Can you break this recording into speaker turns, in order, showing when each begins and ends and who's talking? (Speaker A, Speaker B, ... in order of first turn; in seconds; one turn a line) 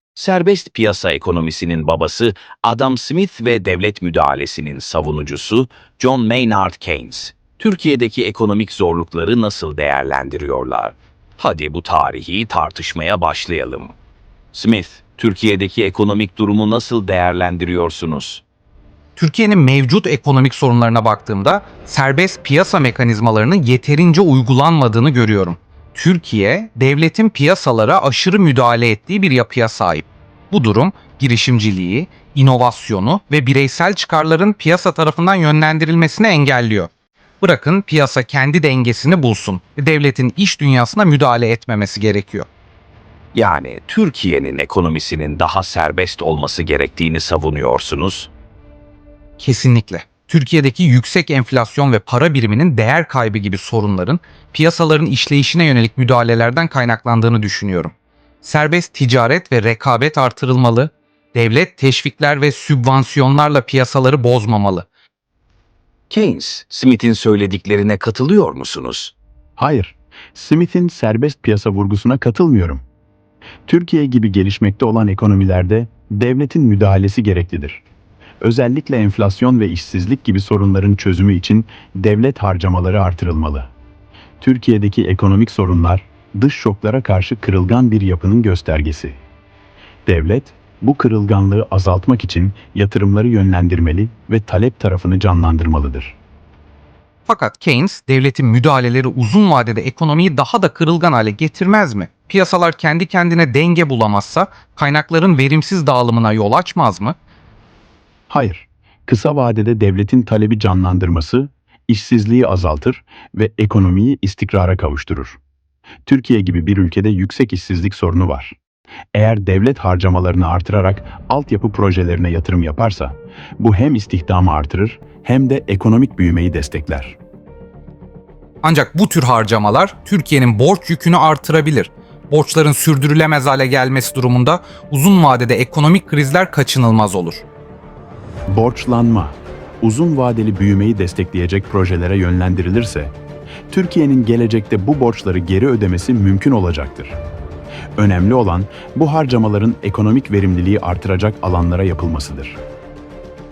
Speaker A: 0.2-13.9
Speaker A: 14.5-18.4
Speaker B: 19.2-36.9
Speaker B: 37.4-42.5
Speaker A: 43.4-48.3
Speaker B: 49.4-64.9
Speaker A: 66.1-69.1
Speaker C: 69.6-72.8
Speaker C: 73.7-77.8
Speaker C: 78.4-83.7
Speaker C: 84.4-89.2
Speaker C: 90.1-96.2
Speaker B: 97.3-107.2
Speaker C: 108.3-115.4
Speaker C: 116.0-118.6
Speaker C: 119.1-127.2
Speaker B: 128.6-137.4
Speaker C: 138.5-143.1
Speaker C: 143.7-147.2
Speaker C: 148.0-152.6